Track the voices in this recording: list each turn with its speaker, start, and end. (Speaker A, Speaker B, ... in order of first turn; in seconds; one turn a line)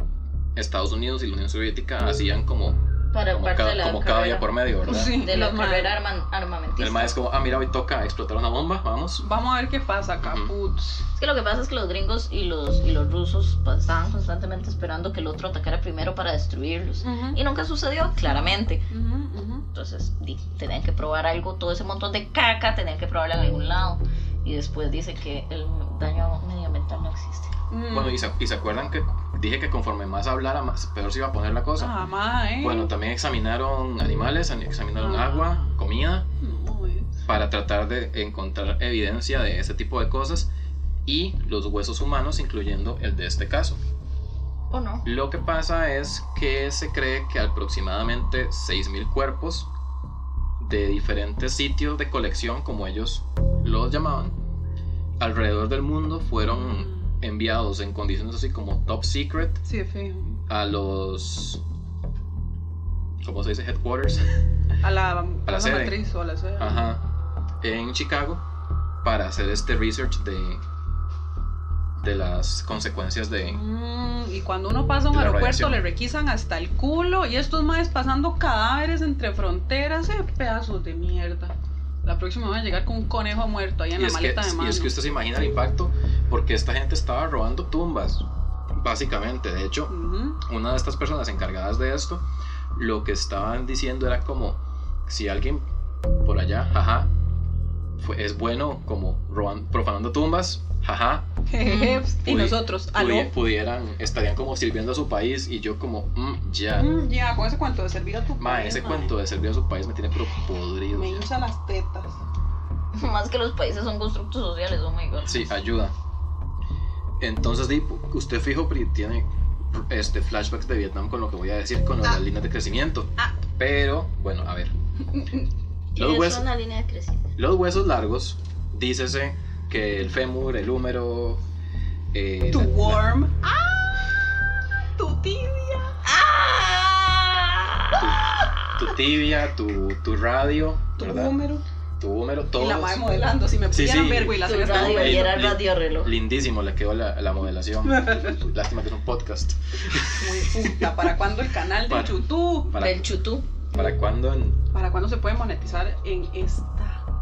Speaker A: 0.5-5.2
Speaker B: 3.1-7.1
Speaker C: 4.8-6.0
Speaker A: 6.8-9.2
Speaker C: 9.2-11.0
Speaker A: 10.2-10.5
Speaker B: 11.2-18.9
Speaker C: 17.0-17.4
Speaker C: 18.2-19.7
Speaker B: 19.7-27.5
Speaker C: 27.7-28.3
Speaker A: 27.9-31.9
Speaker C: 31.8-32.9
Speaker A: 32.6-36.3
Speaker C: 35.0-35.8
Speaker C: 36.4-37.2
Speaker A: 37.2-40.5
Speaker A: 41.0-43.8
Speaker B: 44.7-45.0
Speaker A: 45.0-49.7
Speaker A: 50.6-54.4
Speaker A: 55.2-59.6
Speaker C: 56.8-57.1
Speaker C: 59.6-60.3
Speaker A: 60.5-61.6
Speaker A: 63.2-64.3
Speaker C: 64.8-66.9
Speaker A: 65.5-66.0
Speaker A: 66.6-67.0
Speaker A: 67.6-68.4
Speaker A: 69.0-70.6
Speaker A: 72.0-73.6
Speaker C: 73.5-81.5
Speaker A: 75.1-75.8
Speaker C: 82.0-84.9
Speaker A: 84.0-88.2
Speaker A: 88.8-95.6
Speaker C: 89.9-90.4
Speaker A: 96.2-97.1
Speaker A: 98.0-101.2
Speaker C: 101.5-103.3
Speaker B: 101.6-102.0
Speaker A: 102.2-106.9
Speaker C: 106.7-109.1
Speaker A: 108.4-111.3
Speaker C: 110.9-112.2
Speaker B: 112.9-115.4
Speaker A: 115.2-115.9
Speaker A: 117.2-124.7
Speaker C: 125.2-125.4
Speaker B: 125.9-127.3
Speaker A: 126.0-126.5
Speaker A: 127.3-131.4
Speaker A: 132.1-133.1
Speaker C: 132.5-134.0
Speaker C: 135.0-136.0
Speaker B: 136.0-138.9
Speaker A: 137.9-141.3
Speaker C: 141.0-141.6
Speaker A: 142.0-143.1
Speaker C: 142.5-145.4
Speaker A: 143.7-150.9
Speaker B: 144.3-146.1
Speaker C: 147.8-148.4
Speaker C: 150.1-152.8
Speaker A: 151.8-153.1
Speaker B: 152.8-153.4
Speaker A: 153.7-154.6
Speaker C: 154.7-157.0